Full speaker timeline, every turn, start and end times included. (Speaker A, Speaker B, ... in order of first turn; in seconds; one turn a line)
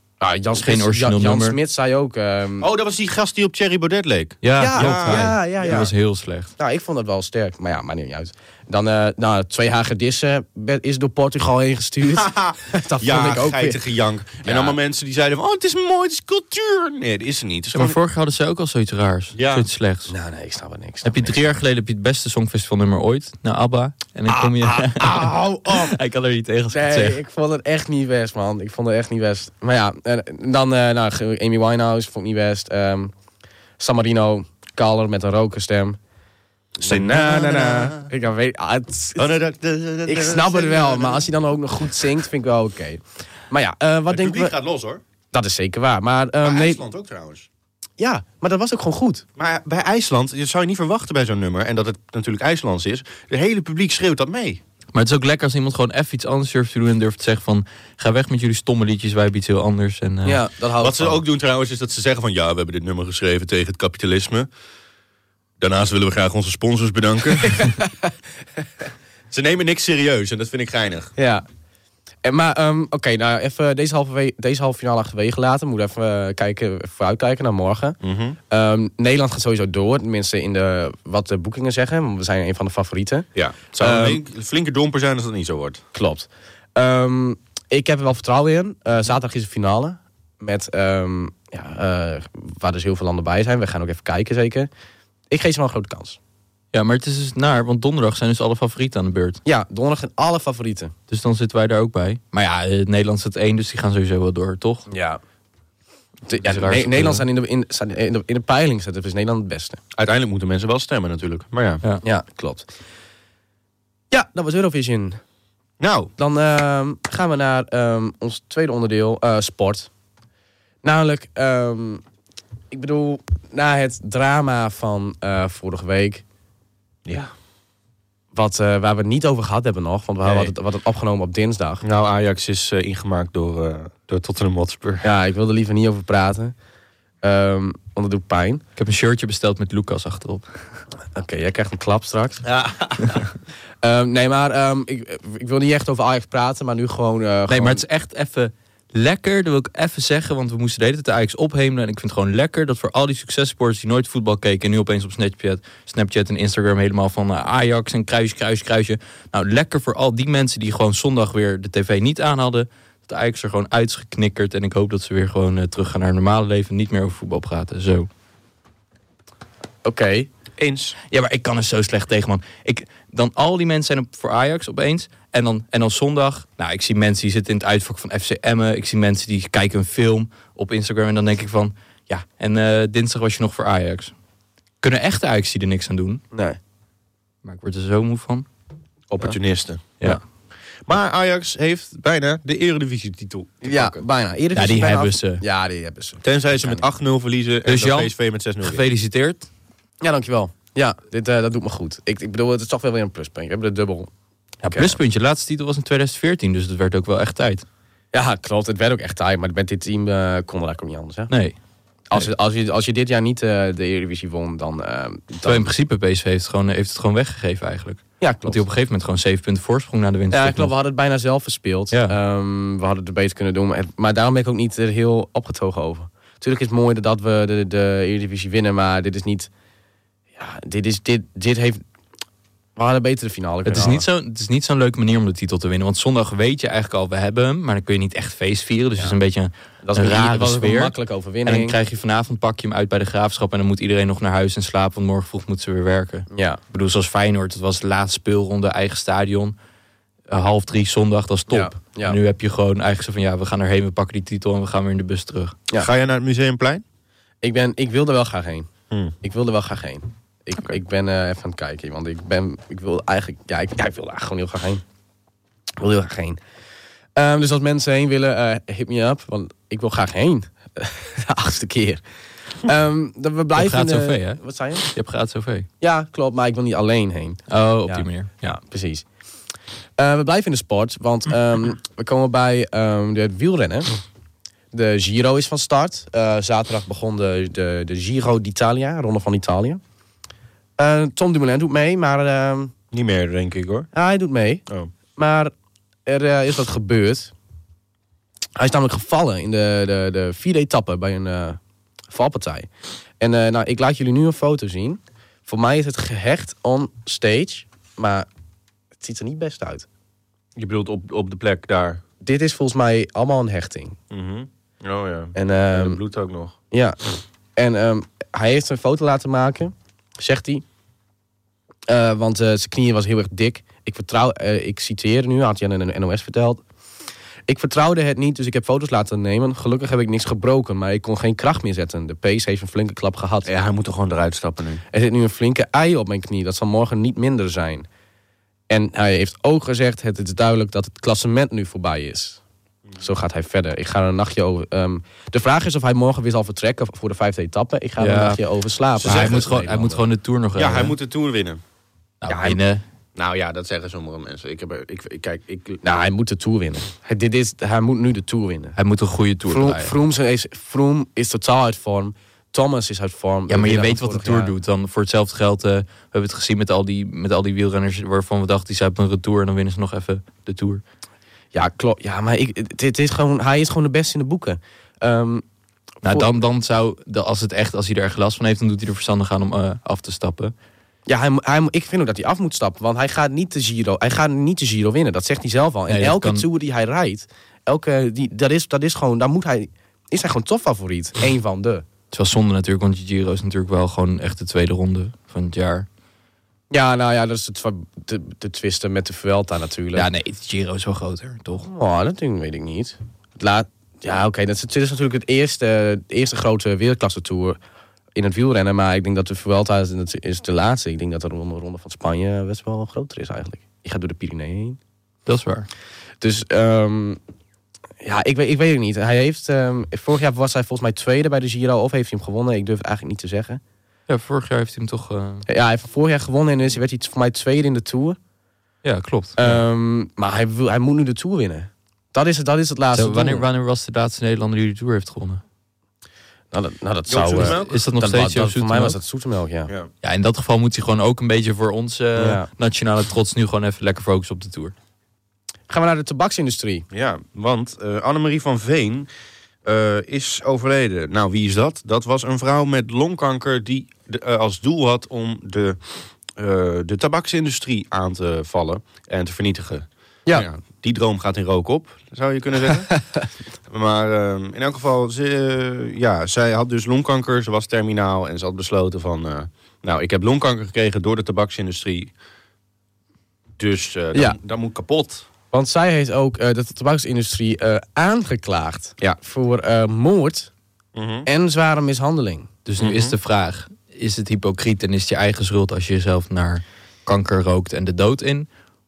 Speaker A: 0.2-2.7
Speaker B: 0.5-1.6
Speaker C: 2.6-5.8
Speaker B: 4.4-6.5
Speaker A: 4.6-5.9
Speaker A: 6.6-13.8
Speaker C: 12.1-18.0
Speaker A: 14.4-14.8
Speaker B: 17.7-20.1
Speaker C: 19.3-19.7
Speaker A: 20.1-21.5
Speaker B: 21.0-27.2
Speaker A: 24.3-26.0
Speaker A: 26.7-33.1
Speaker A: 33.8-36.0
Speaker A: 36.8-39.3
Speaker C: 36.8-38.1
Speaker C: 39.1-41.3
Speaker A: 40.0-44.6
Speaker C: 44.1-45.0
Speaker A: 45.3-46.8
Speaker C: 46.4-47.5
Speaker A: 48.0-49.2
Speaker C: 49.4-54.6
Speaker B: 54.9-60.4
Speaker A: 60.2-61.2
Speaker C: 60.8-64.5
Speaker C: 65.6-67.7
Speaker A: 67.6-67.9
Speaker C: 69.3-71.1
Speaker A: 71.2-71.4
Speaker A: 72.2-78.0
Speaker C: 78.0-78.4
Speaker A: 78.5-83.3
Speaker C: 83.3-85.8
Speaker A: 83.8-84.2
Speaker A: 85.9-94.7
Speaker A: 95.3-96.2
Speaker B: 96.7-99.4
Speaker A: 99.4-100.9
Speaker B: 101.1-104.8
Speaker A: 104.9-105.2
Speaker A: 106.3-109.8
Speaker B: 106.4-107.2
Speaker C: 109.9-111.8
Speaker A: 112.0-112.7
Speaker A: 114.1-115.2
Speaker C: 115.8-116.1
Speaker A: 116.2-119.9
Speaker A: 120.8-122.0
Speaker A: 122.7-126.2
Speaker C: 127.0-127.3
Speaker A: 128.3-131.8
Speaker C: 130.2-130.5
Speaker C: 131.8-135.1
Speaker A: 135.0-136.5
Speaker A: 137.2-138.6
Speaker B: 138.8-140.5
Speaker A: 141.1-142.4
Speaker C: 142.4-143.3
Speaker A: 143.8-147.8
Speaker B: 147.5-168.1
Speaker A: 169.8-170.3
Speaker C: 170.6-171.0
Speaker B: 171.1-184.1
Speaker B: 184.8-186.2
Speaker A: 186.3-186.6
Speaker B: 187.4-188.4
Speaker A: 189.1-189.4
Speaker C: 189.2-189.9
Speaker C: 190.8-194.0
Speaker A: 193.6-196.8
Speaker B: 194.5-195.4
Speaker C: 196.2-198.8
Speaker B: 197.7-199.5
Speaker A: 200.0-204.1
Speaker B: 204.6-207.6
Speaker A: 204.7-205.0
Speaker A: 208.1-211.3
Speaker B: 211.3-211.6
Speaker A: 212.1-215.7
Speaker B: 215.4-220.7
Speaker A: 218.2-218.6
Speaker A: 220.3-229.5
Speaker A: 230.4-231.8
Speaker A: 232.8-234.1
Speaker B: 233.6-240.9
Speaker A: 239.8-241.8
Speaker B: 241.4-249.5
Speaker A: 246.3-246.6
Speaker B: 250.3-255.6
Speaker A: 251.5-252.2
Speaker C: 255.8-256.8
Speaker A: 257.4-258.7
Speaker A: 259.2-264.8
Speaker A: 265.8-266.4
Speaker A: 267.1-272.0
Speaker A: 272.6-274.9
Speaker B: 273.5-275.7
Speaker A: 275.8-279.0
Speaker B: 277.5-278.6
Speaker A: 280.0-283.9
Speaker A: 284.7-289.8
Speaker A: 290.8-292.7
Speaker C: 292.9-293.9
Speaker A: 293.9-294.6
Speaker A: 295.1-295.5
Speaker A: 296.1-297.3
Speaker A: 298.6-301.6
Speaker A: 302.1-302.7
Speaker A: 303.2-308.3
Speaker A: 309.0-309.9
Speaker C: 310.6-312.0
Speaker A: 312.2-314.0
Speaker C: 314.1-316.5
Speaker A: 315.3-316.0
Speaker A: 316.7-317.0
Speaker A: 317.6-320.6
Speaker A: 321.9-326.6
Speaker A: 327.5-333.5
Speaker C: 333.4-334.8
Speaker A: 334.9-337.9
Speaker A: 338.7-342.4
Speaker A: 343.0-350.0
Speaker B: 348.0-348.4
Speaker C: 349.0-349.5
Speaker B: 349.0-350.9
Speaker C: 350.6-351.6
Speaker B: 352.2-352.8
Speaker A: 352.3-352.6
Speaker C: 353.1-355.8
Speaker A: 355.8-358.8
Speaker B: 358.8-359.9
Speaker A: 359.4-364.5
Speaker B: 363.5-370.8
Speaker A: 371.5-375.4
Speaker B: 376.0-380.5
Speaker A: 376.0-376.3
Speaker A: 381.1-391.8
Speaker B: 385.9-386.4
Speaker B: 392.1-395.9
Speaker A: 396.7-400.1
Speaker B: 399.9-401.7
Speaker A: 401.6-407.6
Speaker A: 408.1-414.8
Speaker B: 415.2-415.7
Speaker A: 416.2-417.2
Speaker A: 418.0-423.6
Speaker B: 424.1-425.4
Speaker A: 425.5-428.2
Speaker B: 428.8-429.6
Speaker A: 429.4-433.4
Speaker B: 432.9-435.4
Speaker A: 436.5-439.7
Speaker C: 437.1-437.8
Speaker B: 437.3-439.0
Speaker B: 440.0-444.7
Speaker A: 442.1-442.5
Speaker A: 445.7-446.9
Speaker C: 446.9-449.1
Speaker C: 449.6-455.8
Speaker C: 456.3-462.9
Speaker A: 462.7-463.2
Speaker C: 463.7-472.1
Speaker C: 473.6-475.2
Speaker A: 475.5-480.5
Speaker C: 480.9-481.3
Speaker A: 481.2-482.5
Speaker B: 482.6-488.5
Speaker C: 482.8-483.1